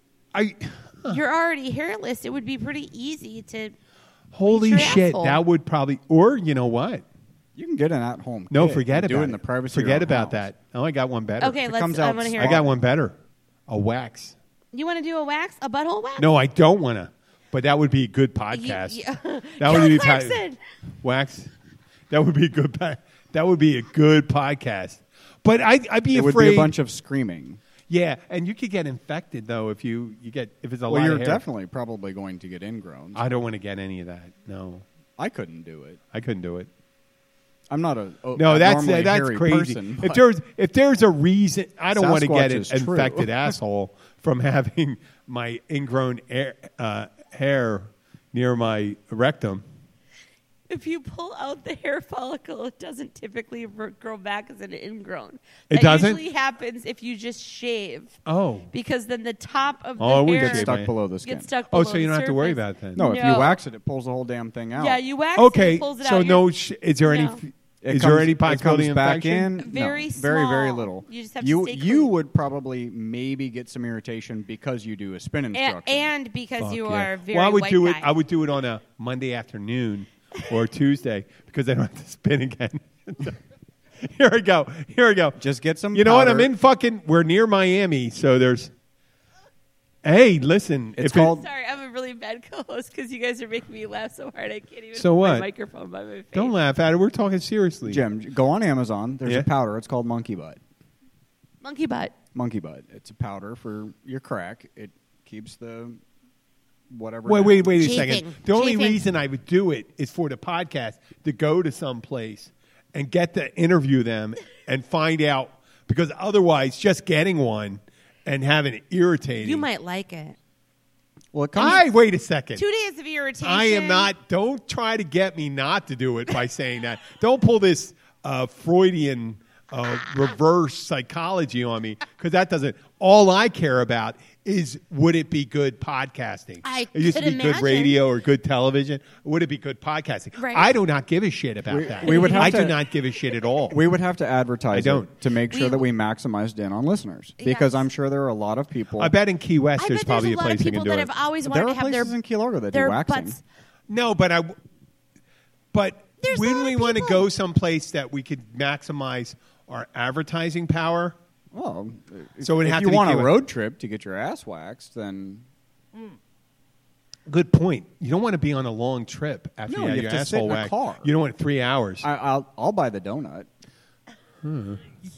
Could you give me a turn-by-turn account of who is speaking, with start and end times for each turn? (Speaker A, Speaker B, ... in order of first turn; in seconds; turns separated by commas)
Speaker A: 0.3-1.2, Speaker B: 1.1-3.7, Speaker A: 4.3-7.0, Speaker B: 4.5-5.4, Speaker C: 7.5-10.5, Speaker A: 8.5-11.7, Speaker B: 11.4-12.6, Speaker C: 11.7-12.7, Speaker A: 12.4-13.2, Speaker A: 13.7-14.4, Speaker B: 14.7-16.3, Speaker A: 16.2-19.0, Speaker B: 18.5-20.6, Speaker A: 19.6-20.4, Speaker A: 21.0-21.5, Speaker A: 22.1-26.7, Speaker C: 26.1-27.6, Speaker A: 27.9-31.4, Speaker C: 30.9-33.2, Speaker A: 33.1-34.8, Speaker C: 35.2-36.0, Speaker A: 36.1-36.7, Speaker C: 37.7-40.2, Speaker A: 38.3-49.6, Speaker C: 41.9-43.5, Speaker B: 50.7-58.1, Speaker A: 55.7-56.2, Speaker A: 58.2-58.7, Speaker B: 58.7-63.6, Speaker A: 60.0-60.9, Speaker C: 60.3-61.5, Speaker A: 61.7-63.0, Speaker C: 63.0-65.0, Speaker B: 64.8-66.4, Speaker A: 65.4-69.5, Speaker B: 67.0-67.4, Speaker C: 67.8-76.1, Speaker B: 69.6-72.1, Speaker B: 75.5-78.1, Speaker A: 76.6-83.4, Speaker A: 84.0-85.4, Speaker C: 85.4-86.5, Speaker A: 85.9-88.7, Speaker A: 90.0-91.3, Speaker C: 91.0-91.5, Speaker B: 91.1-96.5, Speaker A: 94.9-95.5, Speaker A: 96.3-98.0, Speaker C: 97.9-100.6, Speaker B: 101.6-102.1, Speaker C: 102.3-106.0, Speaker C: 106.9-107.7, Speaker A: 107.2-119.7, Speaker B: 107.8-109.0, Speaker B: 119.4-120.4, Speaker C: 121.3-121.8, Speaker A: 121.5-122.6, Speaker B: 122.5-124.1, Speaker A: 123.4-143.8, Speaker B: 136.6-138.0, Speaker B: 140.4-140.7, Speaker C: 141.7-142.8, Speaker B: 142.0-142.7, Speaker C: 143.7-149.1, Speaker A: 144.7-145.1, Speaker B: 145.5-145.9, Speaker B: 147.4-147.9, Speaker A: 149.0-151.1, Speaker B: 149.8-152.1, Speaker C: 151.4-153.4, Speaker B: 152.7-153.4, Speaker A: 153.9-154.5, Speaker A: 155.7-161.2, Speaker B: 156.2-157.2, Speaker C: 161.5-165.4, Speaker A: 162.4-163.3, Speaker A: 167.3-172.1, Speaker C: 169.7-171.1, Speaker C: 172.0-173.5, Speaker A: 174.4-174.8